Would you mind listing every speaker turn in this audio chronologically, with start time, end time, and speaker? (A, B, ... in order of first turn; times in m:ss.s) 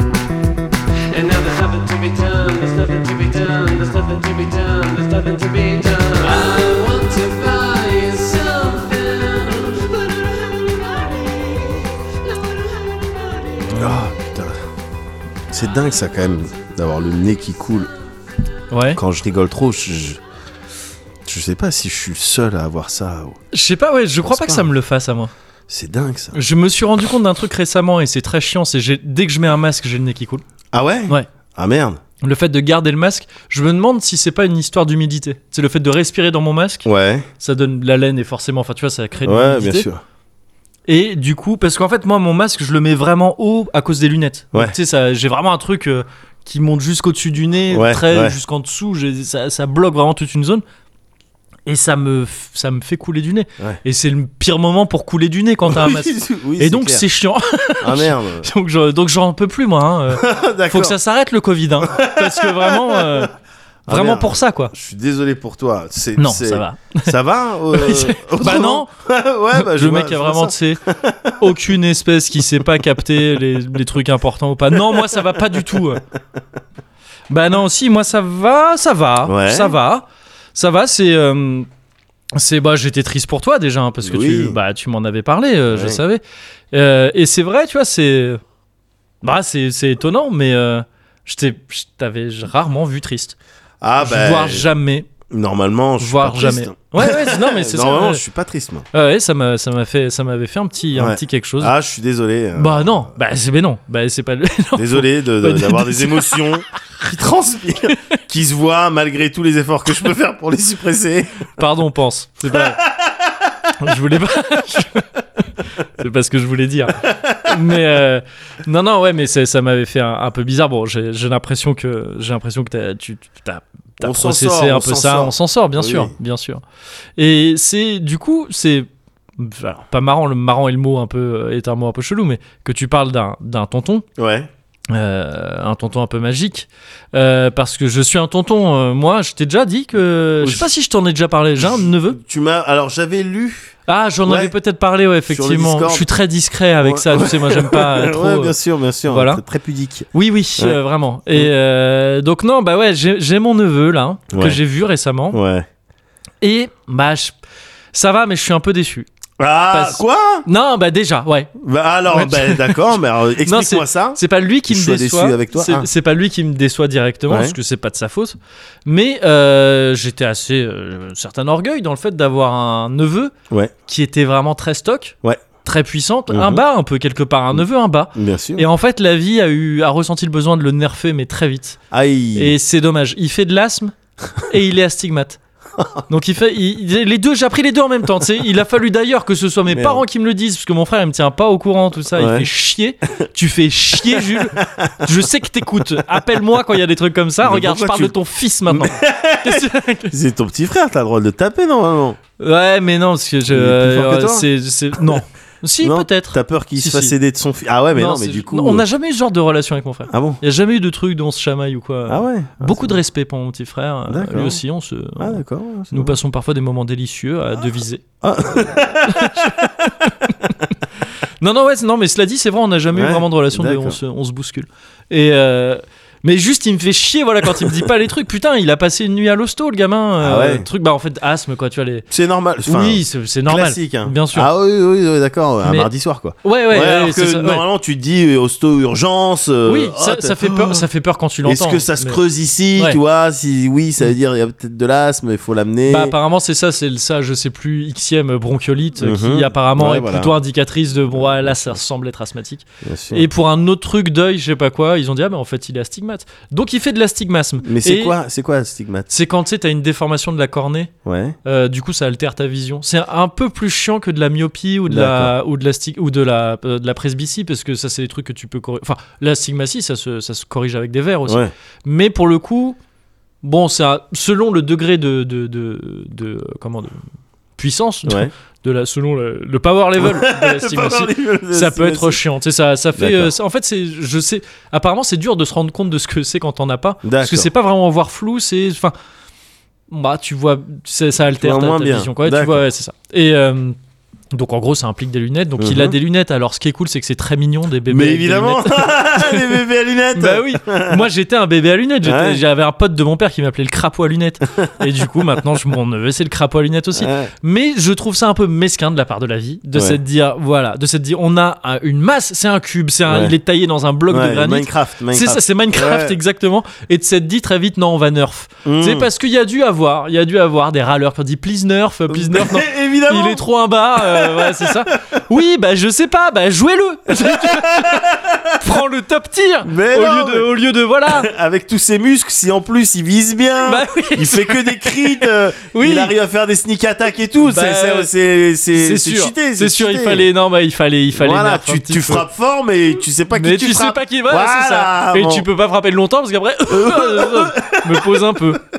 0:01.1-0:13.7 A
0:13.6-0:14.1 B
0:13.8-0:14.6 C
0:15.5-0:17.9 C
0:18.7-0:19.0 B
0:18.9-0:20.2 C
0:21.2-0:23.4 C
0:23.5-0:25.3 B
0:24.2-0:24.7 C
0:25.7-0:26.4 C
0:26.3-0:30.4 B
0:30.7-0:32.0 C
0:32.2-0:36.9 B
0:36.8-0:37.3 C
0:37.4-0:39.9 B
0:39.2-0:40.0 C
0:40.9-0:50.6 B
0:47.7-0:48.4 C
0:51.6-1:03.3 B
0:55.6-0:57.0 C
0:57.8-0:58.5 C
1:00.1-1:01.0 C
1:01.8-1:03.3 C
1:03.9-1:11.6 C
1:03.9-1:04.7 B
1:06.2-1:07.1 B
1:07.7-1:08.9 B
1:09.5-1:10.8 B
1:11.4-1:16.0 B
1:14.7-1:15.8 C
1:17.3-1:21.7 B
1:19.2-1:19.8 C
1:22.3-1:26.2 B
1:24.0-1:24.6 C
1:25.7-1:26.0 C
1:26.7-1:28.4 B
1:29.2-1:33.4 B
1:33.8-1:34.7 C
1:34.0-1:35.1 B
1:35.3-1:38.8 C
1:36.0-1:38.2 B
1:38.9-1:41.7 B
1:40.9-1:43.0 C
1:42.5-1:46.4 B
1:44.7-1:51.5 C
1:47.9-1:48.1 B
1:51.6-1:52.8 B
1:52.5-1:53.4 C
1:53.8-1:55.0 B
1:55.8-2:06.6 B
1:57.0-1:57.6 C
2:04.0-2:06.1 C
2:07.2-2:14.0 B
2:14.2-2:14.5 C
2:14.9-2:22.2 B
2:20.4-2:20.7 C
2:21.6-2:24.5 C
2:23.9-2:28.5 B
2:25.3-2:26.1 C
2:26.8-2:30.8 C
2:29.1-2:29.4 B
2:30.1-2:35.4 B
2:34.3-2:34.6 C
2:35.3-2:35.7 C
2:36.4-2:37.3 B
2:37.9-2:39.1 B
2:39.4-2:40.5 C
2:39.7-2:41.5 B
2:41.6-2:45.9 C
2:42.1-2:42.9 B
2:43.4-2:53.3 B
2:47.3-2:47.6 C
2:53.9-3:01.8 B
2:56.3-2:56.6 C
2:58.1-2:58.6 C
3:01.9-3:02.6 C
3:02.3-3:05.4 B
3:05.8-3:06.0 C
3:06.1-3:20.1 B
3:09.7-3:10.0 C
3:12.1-3:12.5 C
3:14.0-3:15.2 C
3:16.0-3:16.2 C
3:17.4-3:18.1 C
3:18.7-3:22.2 C
3:22.4-3:27.1 B
3:23.5-3:25.2 C
3:25.8-3:28.8 C
3:27.9-3:38.0 B
3:30.1-3:30.4 C
3:32.1-3:33.0 C
3:34.1-3:34.6 C
3:35.2-3:36.2 C
3:38.2-3:39.9 C
3:39.0-3:40.5 B
3:41.4-3:52.0 B
3:42.9-3:44.0 C
3:47.6-3:47.8 C
3:50.2-3:50.7 C
3:52.1-4:00.8 C
3:52.6-3:54.5 B
3:55.6-3:55.9 B
3:56.4-3:57.6 B
3:59.6-4:02.2 B
4:01.4-4:06.1 C
4:05.9-4:18.2 B
4:09.0-4:10.3 C
4:11.2-4:11.8 C
4:12.8-4:13.3 C
4:17.6-4:19.1 C
4:19.1-4:20.9 B
4:21.0-4:21.4 C
4:21.4-4:32.8 B
4:24.9-4:25.3 C
4:31.2-4:31.5 C
4:33.4-4:37.0 B
4:37.6-4:48.9 B
4:38.0-4:38.3 C
4:40.0-4:42.2 C
4:43.0-4:43.3 C
4:47.0-4:47.5 C
4:49.9-4:53.8 B
4:51.3-4:52.6 C
4:54.3-4:59.6 B
4:55.6-4:55.9 C
4:57.9-5:01.1 C
5:00.1-5:31.3 B
5:02.0-5:02.4 C
5:06.9-5:07.3 C
5:13.1-5:13.3 C
5:14.1-5:16.2 C
5:18.6-5:19.1 C
5:22.1-5:25.0 C
5:27.1-5:28.6 C
5:29.6-5:30.5 C
5:31.1-5:40.3 C
5:33.6-5:36.1 B
5:37.4-5:38.1 B
5:38.7-5:42.2 B
5:41.1-5:45.5 C
5:43.3-5:48.6 B
5:46.7-5:48.6 C